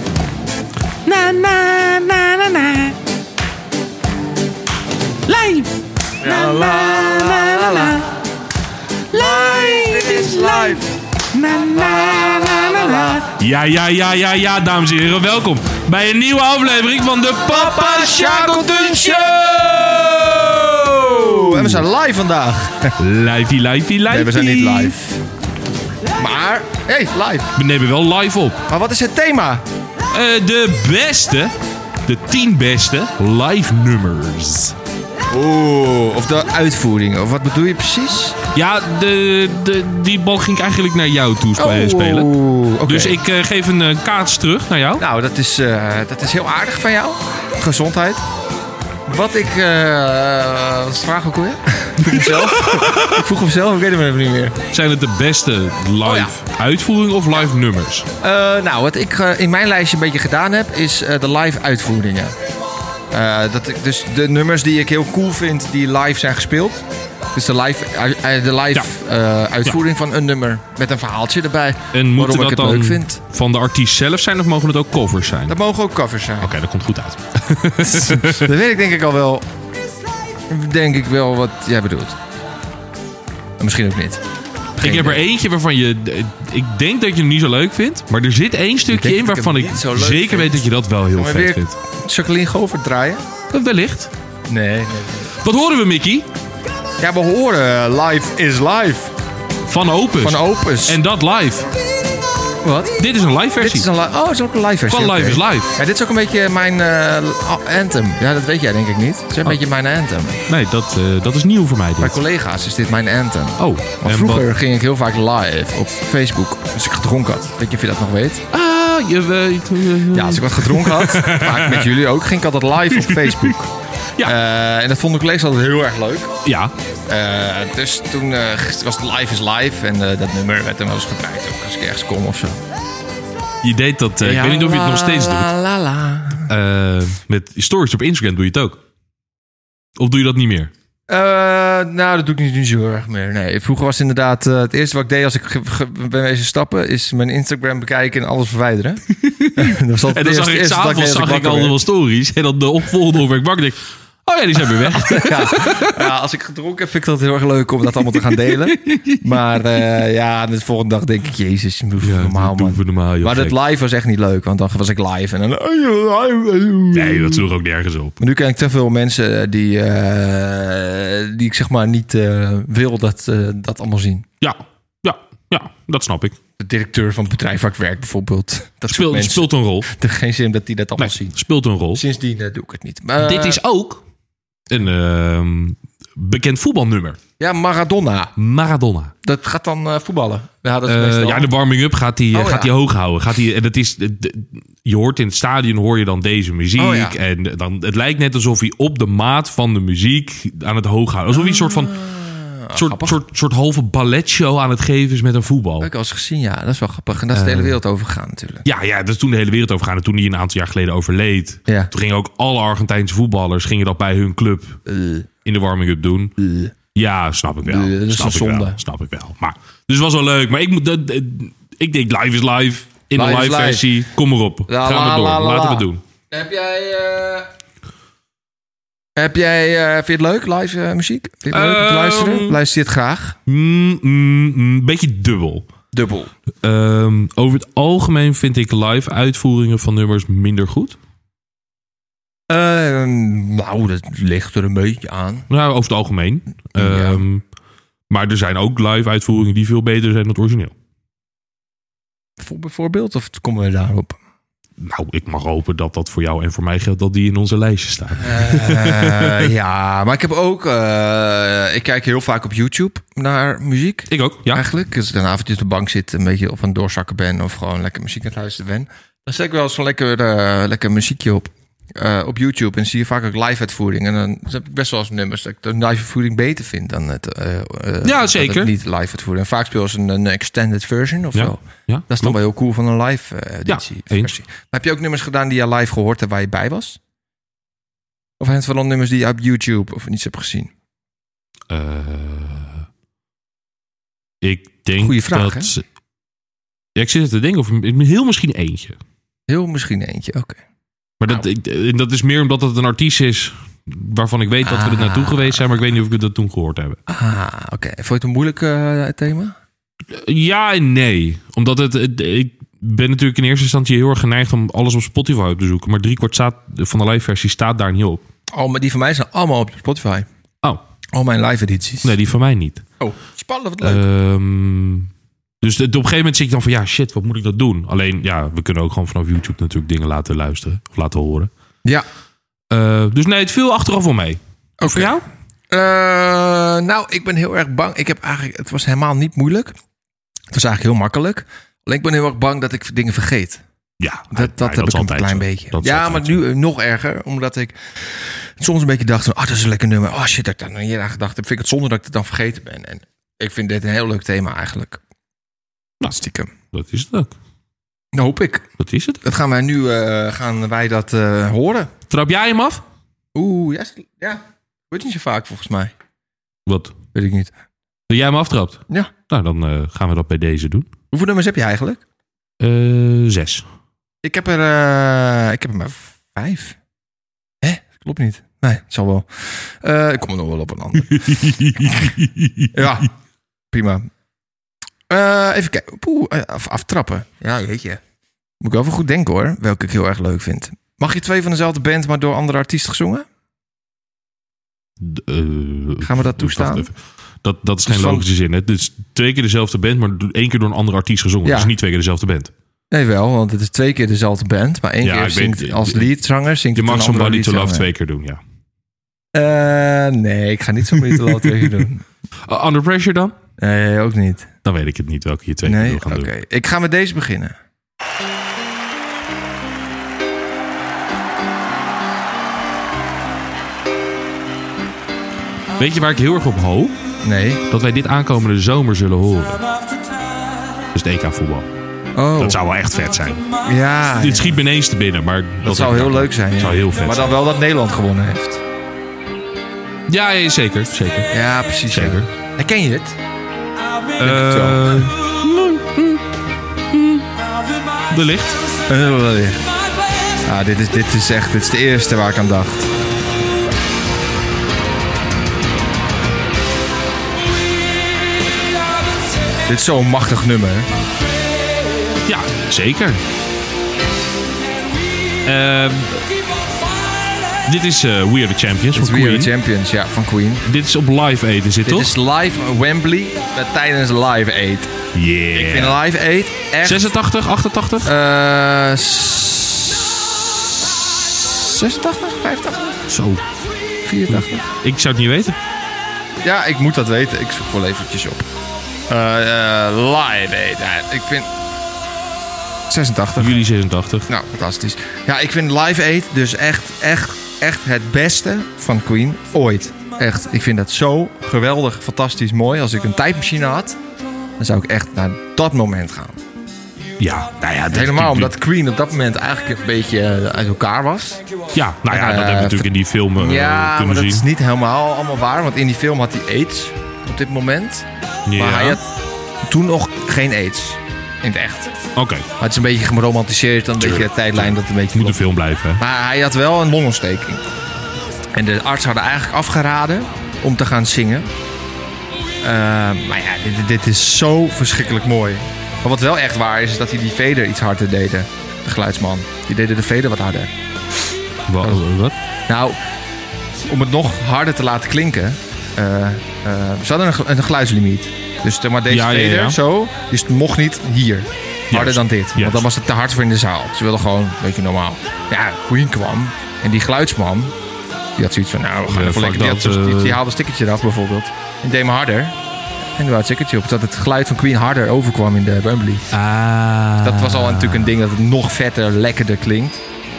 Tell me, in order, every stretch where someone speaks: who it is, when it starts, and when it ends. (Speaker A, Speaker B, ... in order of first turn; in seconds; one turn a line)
Speaker A: 1.0-2.9
Speaker A: 5.3-8.1
Speaker B: 6.2-8.0
Speaker A: 9.1-10.8
Speaker B: 9.1-10.9
Speaker A: 11.3-21.8
Speaker B: 11.7-13.2
Speaker B: 17.4-22.9
Speaker A: 23.0-25.0
Speaker B: 24.1-25.2
Speaker B: 26.1-27.5
Speaker A: 27.6-28.6
Speaker B: 28.7-29.6
Speaker A: 30.1-31.5
Speaker A: 32.0-34.8
Speaker B: 35.3-38.4
Speaker A: 38.5-42.3
Speaker B: 41.6-43.2
Speaker A: 42.8-45.0
Speaker B: 45.0-48.2
Speaker B: 49.1-54.6
Speaker A: 52.0-53.2
Speaker A: 54.7-58.1
Speaker B: 56.0-56.3
Speaker B: 58.2-62.3
Speaker B: 63.1-73.2
Speaker A: 71.9-75.6
Speaker B: 75.5-76.5
Speaker A: 76.4-78.5
Speaker B: 77.8-79.5
Speaker B: 80.5-82.2
Speaker B: 83.6-84.2
Speaker B: 84.8-85.2
Speaker A: 84.8-91.8
Speaker B: 88.8-93.2
Speaker A: 93.5-94.1
Speaker B: 94.5-95.3
Speaker A: 95.4-96.3
Speaker B: 97.0-99.1
Speaker A: 99.7-101.7
Speaker B: 100.2-101.0
Speaker B: 102.6-103.0
Speaker A: 103.0-103.9
Speaker B: 103.6-110.4
Speaker A: 104.9-105.7
Speaker A: 110.5-112.2
Speaker B: 112.0-118.4
Speaker A: 113.6-114.5
Speaker A: 118.5-121.9
Speaker B: 120.1-123.7
Speaker A: 122.9-123.6
Speaker B: 124.2-126.3
Speaker A: 126.4-126.7
Speaker B: 127.1-132.6
Speaker A: 133.6-135.5
Speaker B: 134.2-136.5
Speaker A: 136.5-138.8
Speaker A: 140.0-140.7
Speaker B: 141.1-149.0
Speaker A: 149.2-156.0
Speaker B: 149.6-151.8
Speaker B: 154.7-167.4
Speaker A: 158.3-159.2
Speaker A: 162.0-163.6
Speaker A: 166.9-168.2
Speaker B: 168.2-174.2
Speaker A: 174.4-176.3
Speaker B: 176.6-181.4
Speaker A: 178.9-179.9
Speaker A: 181.0-182.0
Speaker B: 181.9-183.6
Speaker A: 183.2-184.0
Speaker A: 184.7-187.2
Speaker B: 187.4-188.3
Speaker A: 188.4-189.1
Speaker B: 189.2-191.5
Speaker A: 190.8-202.0
Speaker B: 192.3-192.7
Speaker B: 196.8-197.2
Speaker B: 201.3-203.2
Speaker A: 202.7-205.9
Speaker B: 205.8-208.7
Speaker A: 207.3-207.8
Speaker A: 208.6-214.8
Speaker B: 214.8-215.3
Speaker A: 215.4-216.3
Speaker B: 216.4-216.7
Speaker A: 216.9-226.0
Speaker B: 217.6-218.8
Speaker B: 223.1-223.9
Speaker B: 224.7-227.5
Speaker B: 229.2-233.4
Speaker A: 231.5-232.6
Speaker A: 233.5-235.7
Speaker B: 235.9-236.3
Speaker A: 236.6-241.0
Speaker B: 242.5-245.5
Speaker A: 245.5-247.4
Speaker B: 246.7-247.2
Speaker A: 248.1-250.7
Speaker B: 252.4-254.2
Speaker A: 254.8-259.5
Speaker B: 258.2-287.0
Speaker A: 264.1-264.6
Speaker A: 278.0-278.7
Speaker A: 281.3-282.4
Speaker A: 283.7-284.3
Speaker B: 288.4-290.7
Speaker A: 291.7-292.9
Speaker A: 294.4-295.8
Speaker B: 295.0-295.7
Speaker A: 296.9-299.0
Speaker B: 299.5-300.6
Speaker A: 301.2-307.0
Speaker B: 304.6-305.6
Speaker B: 307.1-309.6
Speaker A: 310.1-318.2
Speaker B: 318.5-320.3
Speaker B: 321.1-322.2
Speaker A: 322.0-322.9
Speaker B: 323.0-324.0
Speaker A: 323.8-325.1
Speaker A: 325.6-331.5
Speaker A: 332.7-335.2
Speaker B: 334.8-335.2
Speaker B: 335.7-339.7
Speaker B: 340.5-343.6
Speaker A: 344.0-346.4
Speaker B: 344.3-355.0
Speaker B: 356.1-356.5
Speaker A: 356.7-357.3
Speaker B: 358.1-358.6
Speaker A: 358.8-359.2
Speaker B: 359.2-361.9
Speaker A: 362.1-362.8
Speaker B: 363.3-365.9
Speaker A: 366.6-366.9
Speaker B: 367.1-367.5
Speaker A: 368.1-370.9
Speaker B: 371.1-372.0
Speaker A: 372.6-373.6
Speaker B: 374.2-376.8
Speaker B: 377.6-382.1
Speaker A: 381.1-382.7
Speaker B: 382.7-383.1
Speaker B: 383.7-384.1
Speaker B: 385.1-388.0
Speaker B: 388.6-393.2
Speaker A: 395.0-402.5
Speaker B: 396.0-396.9
Speaker B: 397.9-398.3
Speaker B: 401.4-401.7
Speaker B: 402.9-407.9
Speaker A: 405.0-406.1
Speaker A: 406.7-408.4
Speaker B: 409.3-412.0
Speaker A: 411.1-411.7
Speaker A: 412.5-413.4
Speaker B: 413.6-414.5
Speaker A: 414.6-416.3
Speaker B: 415.6-417.6
Speaker A: 425.8-426.9
Speaker B: 427.2-427.6
Speaker A: 427.7-429.6
Speaker A: 430.9-431.7
Speaker B: 432.1-432.6
Speaker A: 432.4-433.4
Speaker B: 433.6-434.6
Speaker A: 434.2-437.3
Speaker B: 435.6-438.6
Speaker A: 440.1-441.3
Speaker B: 441.3-443.2
Speaker A: 441.9-442.3
Speaker A: 444.2-446.2
Speaker B: 444.2-445.1
Speaker A: 446.9-447.3
Speaker A: 448.1-448.6
Speaker B: 448.9-449.6
Speaker B: 450.4-452.9
Speaker B: 459.6-460.9
Speaker A: 462.2-463.2
Speaker A: 465.4-466.3
Speaker A: 467.6-469.5
Speaker B: 468.9-470.6
Speaker A: 470.6-472.1
Speaker B: 471.9-474.9
Speaker A: 475.1-476.0
Speaker B: 475.5-477.1
Speaker A: 476.8-478.1
Speaker B: 478.0-483.0
Speaker A: 483.1-483.4
Speaker B: 484.0-484.6
Speaker A: 484.3-485.6
Speaker B: 486.4-488.5
Speaker B: 489.1-491.5
Speaker B: 492.9-493.6
Speaker A: 493.4-494.3
Speaker B: 494.3-504.0
Speaker B: 504.6-506.4
Speaker A: 507.2-508.5
Speaker B: 507.9-511.4
Speaker A: 511.7-514.5
Speaker B: 512.1-519.0
Speaker A: 518.5-519.0
Speaker B: 519.6-522.0
Speaker A: 522.1-522.5
Speaker B: 522.6-525.4
Speaker A: 524.0-526.0
Speaker B: 526.0-527.6
Speaker B: 528.5-531.5
Speaker B: 532.6-540.7
Speaker A: 541.7-542.4
Speaker B: 542.7-543.0
Speaker B: 543.9-557.7
Speaker A: 549.1-549.8
Speaker A: 551.9-552.9
Speaker B: 558.4-562.6
Speaker A: 559.1-560.4
Speaker B: 563.1-566.3
Speaker A: 566.3-568.1
Speaker B: 567.2-570.0